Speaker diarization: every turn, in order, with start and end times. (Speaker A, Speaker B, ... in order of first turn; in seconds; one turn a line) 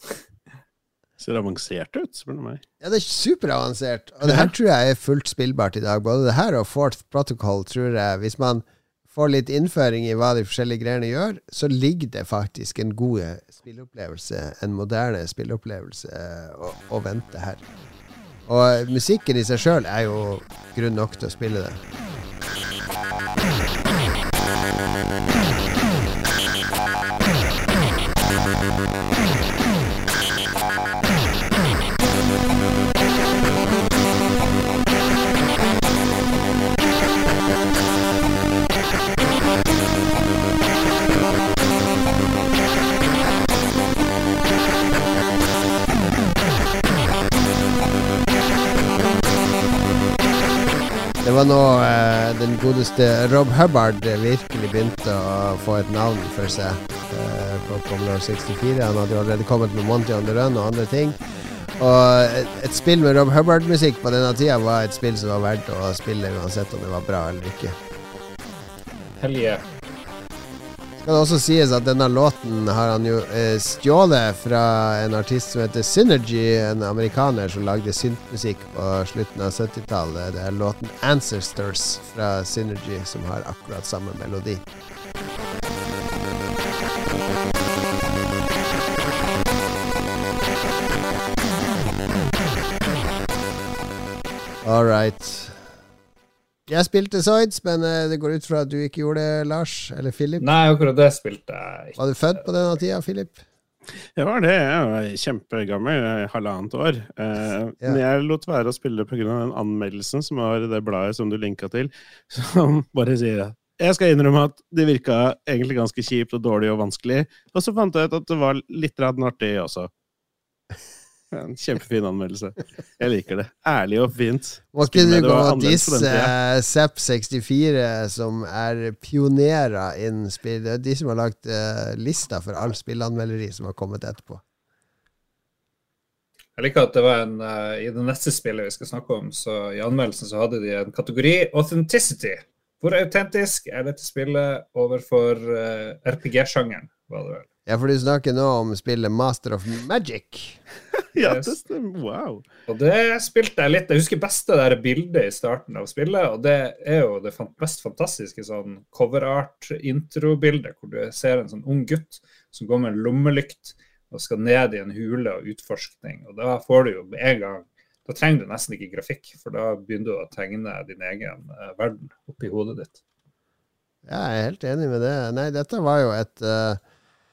Speaker A: 1.2-2.6
Speaker B: 2.8-17.6
Speaker B: 18.5-21.8
Speaker B: 51.2-61.2
Speaker B: 61.8-67.7
Speaker C: 69.2-69.6
Speaker B: 71.0-84.6
Speaker B: 94.6-95.6
Speaker B: 96.7-100.4
Speaker C: 100.4-102.4
Speaker B: 102.0-103.4
Speaker A: 104.2-119.9
Speaker A: 121.3-126.3
Speaker B: 124.7-134.4
Speaker C: 136.6-147.4
Speaker B: 147.7-150.6
Speaker A: 151.1-152.4
Speaker C: 151.2-151.6
Speaker C: 152.7-173.0
Speaker B: 174.1-176.8